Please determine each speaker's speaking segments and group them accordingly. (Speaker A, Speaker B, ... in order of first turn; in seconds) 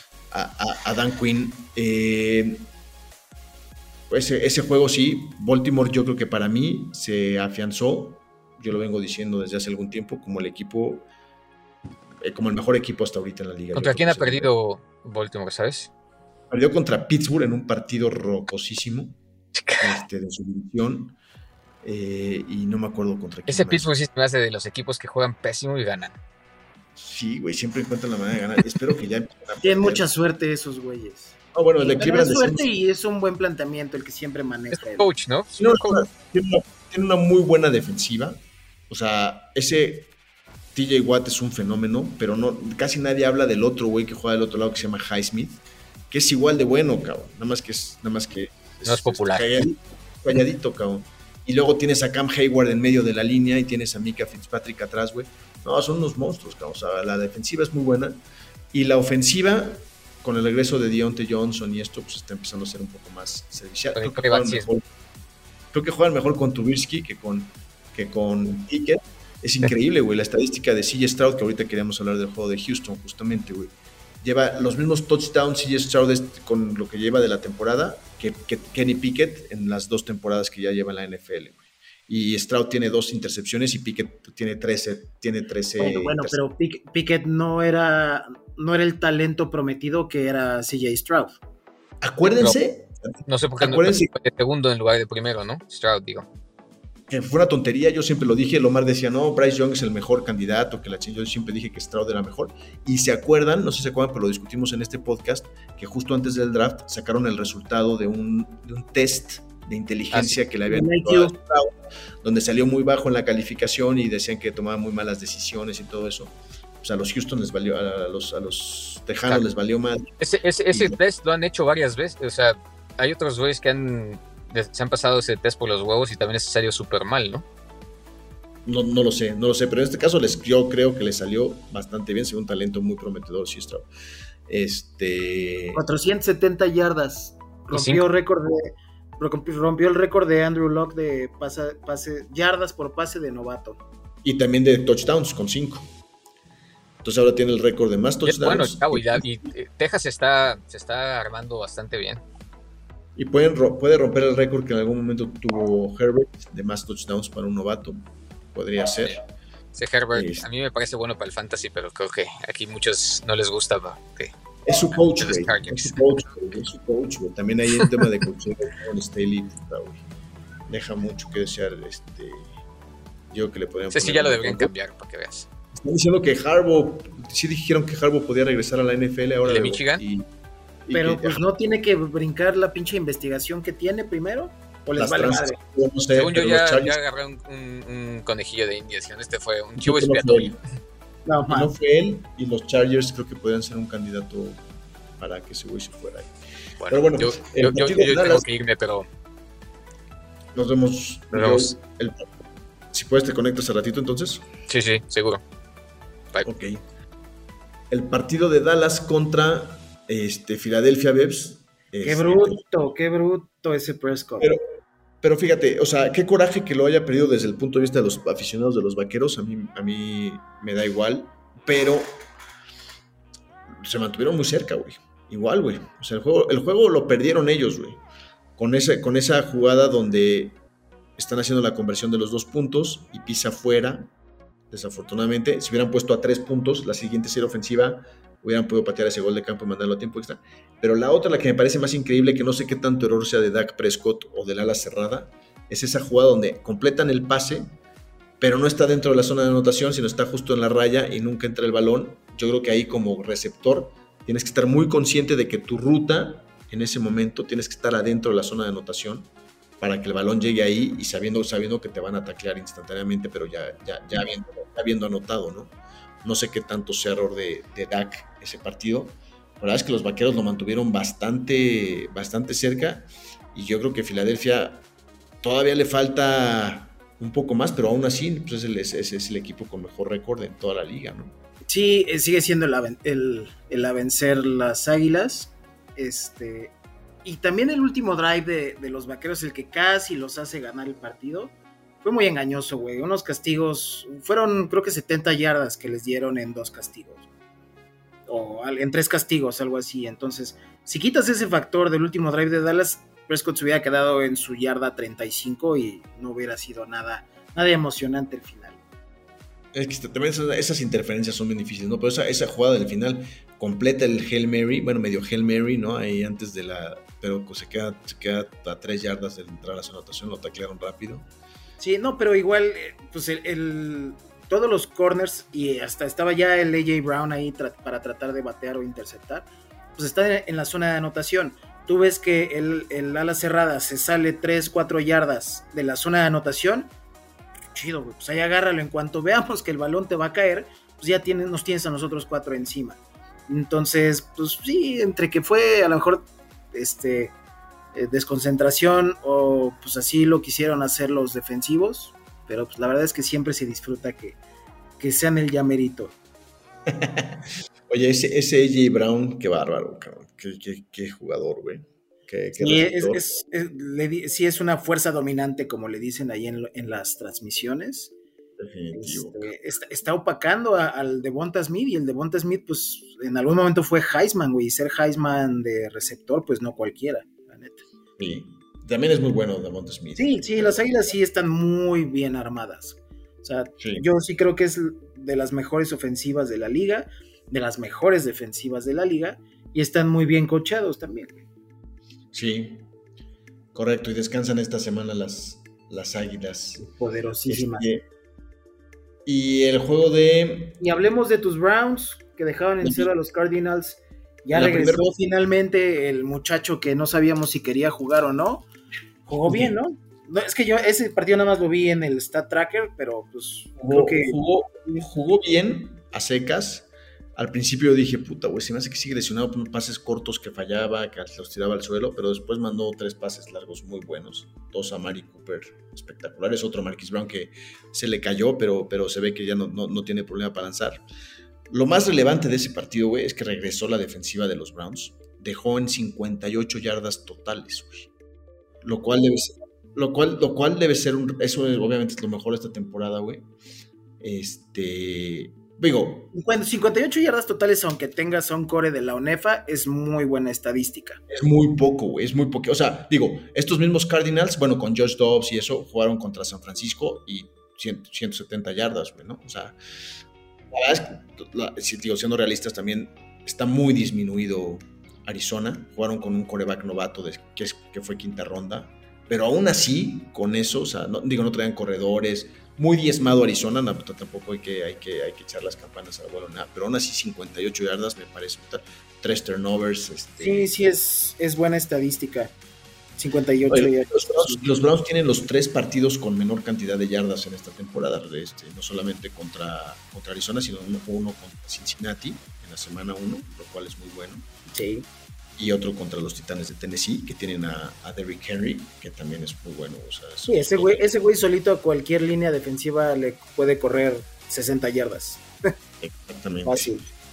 Speaker A: 0.3-2.7, 4.1-11.1, 12.2-14.5, 16.5-19.2, 19.8-21.2, 21.8-23.9, 27.0-30.1, 31.5-32.7, 35.5-40.1, 40.7-58.2, 58.7-64.8, 65.7-86.4, 92.0-94.1, 97.1-120.1, 120.7-121.0, 128.7-133.9, 134.5-135.8, 144.2-145.9, 147.0-149.2, 153.2-158.0, 158.5-159.2, 160.1-160.5, 164.7-170.0, 170.7-172.5, 173.3-174.7, 175.7-180.2, 180.9-181.4, 185.0-187.0, 189.8-190.6, 191.5-194.6, 195.2-196.3, 196.9-198.5, 200.5-204.5, 206.4-206.8, 207.9-212.6, 215.2-222.1, 223.8-228.0, 228.6-230.6, 231.2-234.1, 234.7-247.8, 248.4-259.3, 259.8-274.9, 275.4-281.3, 309.7-321.2, 356.9-363.4, 368.6-369.5, 378.2-380.8, 383.8-384.0, 392.3-392.9, 393.7-396.9, 397.5-398.0, 399.2-400.8, 402.8-403.1, 404.5-405.1, 409.5-409.8, 413.8-431.0, 431.7-438.1, 438.8-443.5, 444.2-446.3, 451.3-459.8, 460.7-480.7, 483.7-494.4, 495.6-501.1, 506.0-506.9
Speaker B: 13.7-15.9, 19.6-20.0, 23.5-26.2, 34.7-36.0, 48.9-49.6, 64.0-64.7, 93.2-96.3, 120.2-127.5, 137.7-138.0, 148.2-152.2, 159.8-164.3, 165.2-166.0, 173.9-175.5, 179.4-180.0, 186.2-190.6, 196.8-199.1, 201.3-201.7, 204.7-205.4
Speaker C: 29.6-35.1, 85.8-91.4, 110.7-111.3, 135.7-143.8, 180.9-185.6, 191.2-191.7, 212.0-214.5, 281.7-286.7, 287.2-297.2, 298.3-308.8, 321.8-336.9, 337.7-347.3, 347.9-354.4, 355.0-356.1, 362.6-368.1, 368.9-377.8, 380.2-391.4, 396.8-397.9, 400.8-408.7, 409.3-414.4, 446.3-451.2, 480.4-482.5, 483.2-484.6, 494.7-495.1, 500.5-505.4, 506.6-507.1